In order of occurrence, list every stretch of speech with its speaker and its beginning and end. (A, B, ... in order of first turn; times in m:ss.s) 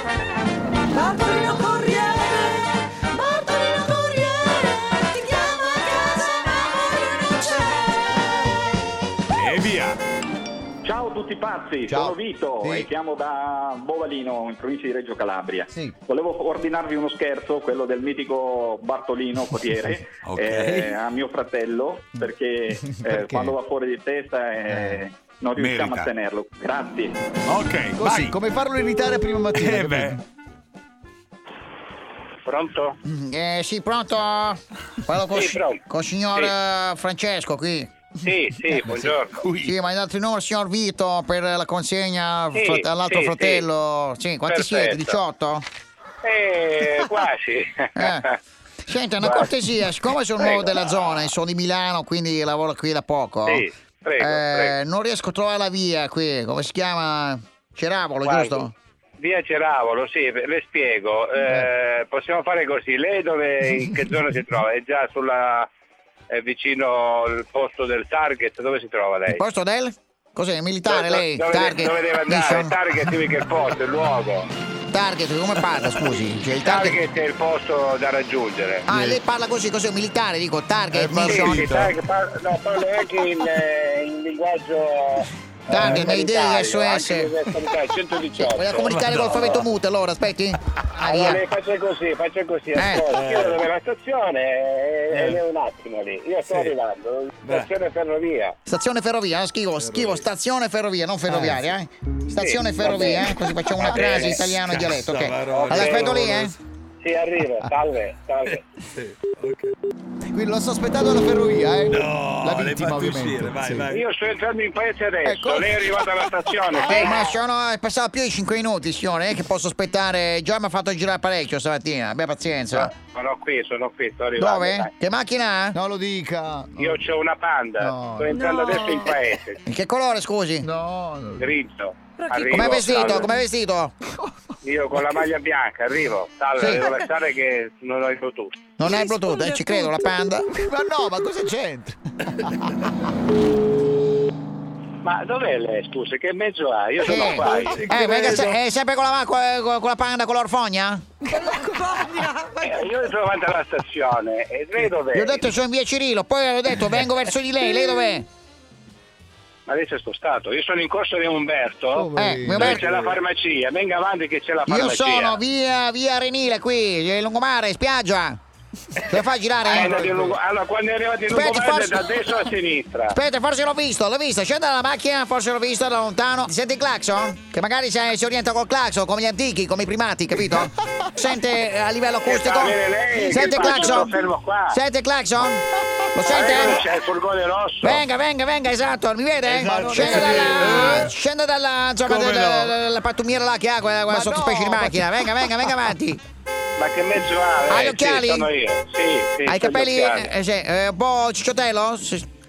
0:00.9-0:07.7 A
0:09.3-0:10.0 B
0:10.8-0:27.2 C
0:11.9-0:12.9 D
0:15.7-0:16.0 D
0:20.1-0:21.0 B
0:22.2-0:23.5 D
0:24.7-0:25.0 D
0:25.5-0:26.1 B
0:27.5-0:28.3 B
0:27.9-0:30.2 D
0:29.5-0:30.2 B
0:32.4-0:33.0 E
0:33.0-0:37.9 F
0:35.3-0:35.8 E
0:38.2-0:39.4 E
0:38.9-0:39.7 D
0:39.6-0:45.6 F
0:42.6-0:43.6 E
0:44.5-0:45.2 E
0:46.2-0:48.4 E
0:47.9-0:48.3 F
0:48.8-0:53.6 F
0:49.2-0:49.5 E
0:50.4-0:50.8 E
0:53.4-0:54.7 E
0:54.2-0:58.7 F
0:58.2-0:58.7 E
0:59.2-1:05.7 E
1:06.3-1:09.4 E
1:09.3-1:12.8 F
1:10.9-1:14.5 E
1:14.9-1:17.0 F
1:16.6-1:18.9 E
1:18.9-1:21.7 F
1:18.9-1:19.2 D
1:21.0-1:21.3 D
1:21.2-1:21.9 B
1:21.2-1:29.6 E
1:25.7-1:27.4 F
1:28.4-1:31.4 F
1:28.9-1:29.6 B
1:31.0-1:38.6 E
1:32.7-1:33.0 F
1:33.1-1:33.6 B
1:35.1-1:35.4 B
1:36.5-1:36.7 B
1:38.6-1:46.6 F
1:41.3-1:41.6 D
1:42.3-1:43.3 E
1:43.8-1:44.1 B
1:43.8-1:44.7 E
1:44.7-1:46.5 B
1:45.5-1:46.3 E
1:47.0-1:48.7 E
1:49.2-1:49.7 B
1:50.3-1:53.9 D
1:51.9-1:54.0 B
1:53.9-1:57.3 E
1:55.2-1:57.2 D
1:56.8-2:02.9 F
2:02.7-2:04.9 E
2:04.4-2:05.8 F
2:05.7-2:07.0 D
2:06.8-2:09.6 E
2:07.8-2:08.3 D
2:08.3-2:09.1 A
2:09.6-2:10.7 F
2:10.6-2:11.5 D
2:11.4-2:13.3 E
2:12.2-2:13.2 A
2:12.5-2:13.9 F
2:14.6-2:18.6 E
2:16.6-2:16.8 F
2:18.8-2:20.5 F
2:18.8-2:20.2 A
2:20.5-2:22.6 D
2:25.0-2:27.8 E
2:27.0-2:31.1 F
2:27.6-2:28.5 D
2:31.3-2:32.8 A
2:32.6-2:35.5 E
2:35.1-2:38.3 F
2:39.7-2:45.4 E
2:41.9-2:42.8 D
2:42.2-2:42.8 F
2:44.7-2:48.4 F
2:49.1-2:50.1 F
2:49.7-2:53.2 E
2:49.8-2:50.3 D
2:51.3-2:52.1 F
2:53.1-3:04.1 F
3:02.2-3:04.8 E
3:04.7-3:05.6 F
3:06.1-3:06.8 F
3:06.3-3:08.0 E
3:07.8-3:16.2 F
3:09.4-3:11.1 D
3:09.7-3:11.0 B
3:12.0-3:12.7 B
3:14.1-3:15.8 D
3:16.8-3:20.3 E
3:17.7-3:18.5 F
3:19.5-3:22.3 F